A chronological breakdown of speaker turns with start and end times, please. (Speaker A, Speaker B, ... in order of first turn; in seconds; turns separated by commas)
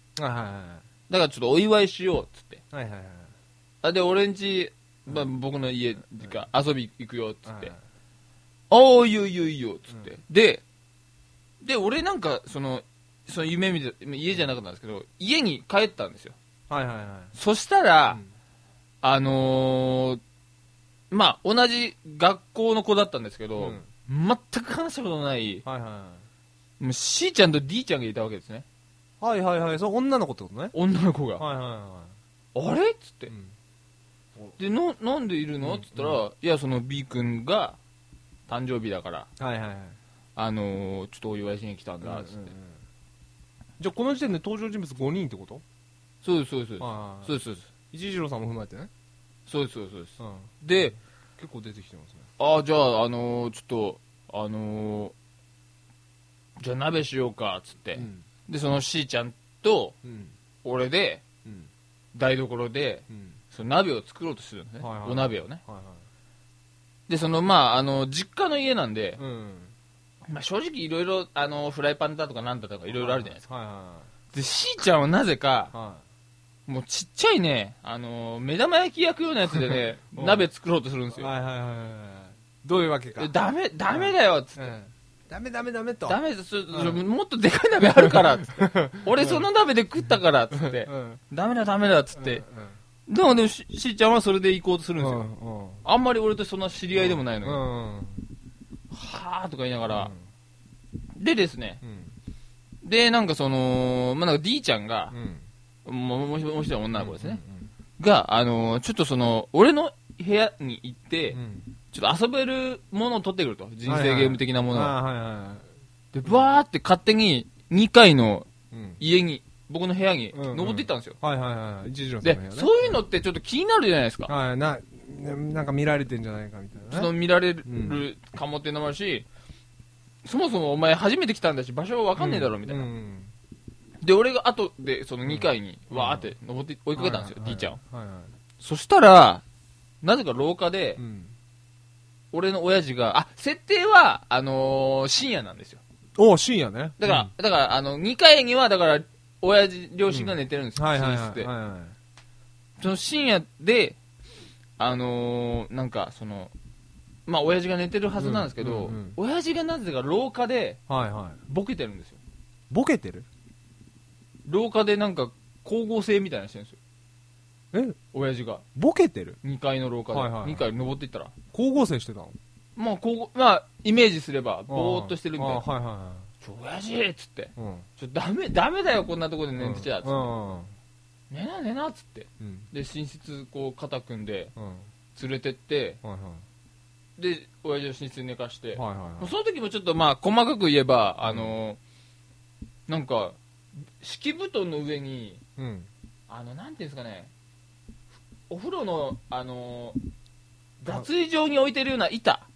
Speaker A: 0.1-0.8, Speaker B: 1.1-2.6, Speaker A: 2.7-3.3, Speaker B: 3.8-7.7, Speaker A: 7.5-7.8, Speaker B: 8.7-10.6, Speaker B: 11.6-16.4, Speaker A: 16.7-17.3, Speaker B: 17.4-18.2, Speaker B: 19.0-20.2, Speaker B: 21.1-25.6, Speaker A: 23.6-23.9, Speaker A: 25.6-26.2, Speaker B: 26.8-28.6, Speaker A: 29.2-30.7, Speaker B: 30.7-31.4, Speaker A: 31.4-32.1, Speaker B: 32.5-33.3, Speaker B: 34.6-37.8, Speaker A: 35.6-36.2, Speaker B: 38.5-39.3, Speaker A: 39.4-40.0, Speaker B: 40.4-42.5, Speaker A: 42.0-42.8, Speaker A: 43.8-45.6, Speaker B: 46.2-47.7, Speaker A: 46.8-47.3, Speaker A: 47.9-48.9, Speaker B: 49.5-51.0, Speaker A: 50.2-50.5, Speaker A: 51.4-52.3, Speaker B: 52.4-55.1, Speaker B: 56.6-60.0, Speaker A: 58.0-58.2, Speaker A: 60.0-60.3, Speaker B: 60.6-61.2, Speaker B: 62.1-65.6, Speaker A: 63.1-63.4, Speaker A: 64.8-66.0, Speaker B: 67.1-69.2, Speaker A: 69.2-69.7, Speaker B: 70.3-73.4, Speaker A: 72.9-74.1, Speaker B: 74.3-75.7, Speaker A: 75.7-76.0, Speaker B: 76.7-81.3, Speaker A: 79.7-80.5, Speaker A: 81.2-83.3, Speaker B: 83.2-84.7, Speaker A: 83.9-86.2, Speaker B: 86.1-92.4, Speaker A: 86.7-87.0, Speaker A: 88.0-89.5, Speaker A: 90.5-91.2, Speaker A: 92.1-92.8, Speaker B: 93.1-95.2, Speaker A: 95.0-95.8, Speaker B: 95.8-97.6, Speaker A: 96.9-98.2, Speaker B: 98.9-100.1, Speaker A: 99.9-100.2, Speaker B: 101.2-101.8, Speaker A: 101.8-102.1, Speaker B: 102.8-105.1, Speaker A: 105.1-105.4, Speaker B: 105.8-107.4, Speaker A: 106.9-107.7, Speaker B: 108.0-111.4, Speaker A: 111.3-111.7, Speaker B: 111.9-115.0, Speaker A: 113.8-115.7, Speaker B: 116.1-121.2, Speaker A: 118.7-119.0, Speaker A: 120.3-123.0, Speaker B: 122.2-124.3, Speaker A: 124.3-127.1, Speaker B: 126.9-129.2, Speaker A: 127.7-128.0, Speaker B: 130.2-132.9, Speaker A: 132.2-133.3, Speaker B: 134.0-137.8, Speaker A: 135.2-136.3, Speaker A: 136.9-138.3, Speaker B: 138.6-139.4, Speaker B: 140.0-141.0, Speaker A: 141.0-141.3, Speaker B: 142.3-145.8, Speaker A: 146.2-147.3, Speaker B: 147.0-151.5, Speaker A: 150.1-151.9, Speaker B: 152.8-154.0, Speaker B: 154.8-156.5, Speaker B: 157.3-160.8, Speaker A: 158.2-159.2, Speaker A: 160.9-161.4, Speaker B: 161.5-162.2, Speaker A: 162.7-163.2, Speaker B: 164.5-166.8, Speaker A: 167.7-168.0, Speaker B: 168.1-168.6, Speaker A: 168.7-169.4, Speaker B: 169.4-171.3, Speaker A: 170.1-170.6, Speaker A: 171.5-172.4, Speaker B: 172.8-175.6, Speaker A: 174.7-176.3, Speaker B: 176.4-180.3, Speaker A: 177.6-177.8, Speaker A: 179.6-180.7, Speaker B: 181.3-184.5, Speaker A: 182.4-182.7, Speaker A: 184.6-184.9, Speaker B: 185.1-186.0, Speaker A: 186.0-186.4, Speaker B: 187.2-191.8, Speaker A: 188.7-189.3, Speaker A: 191.2-191.6, Speaker B: 192.9-195.4, Speaker A: 195.6-195.9, Speaker B: 196.3-197.3, Speaker B: 198.5-200.0, Speaker B: 200.8-202.5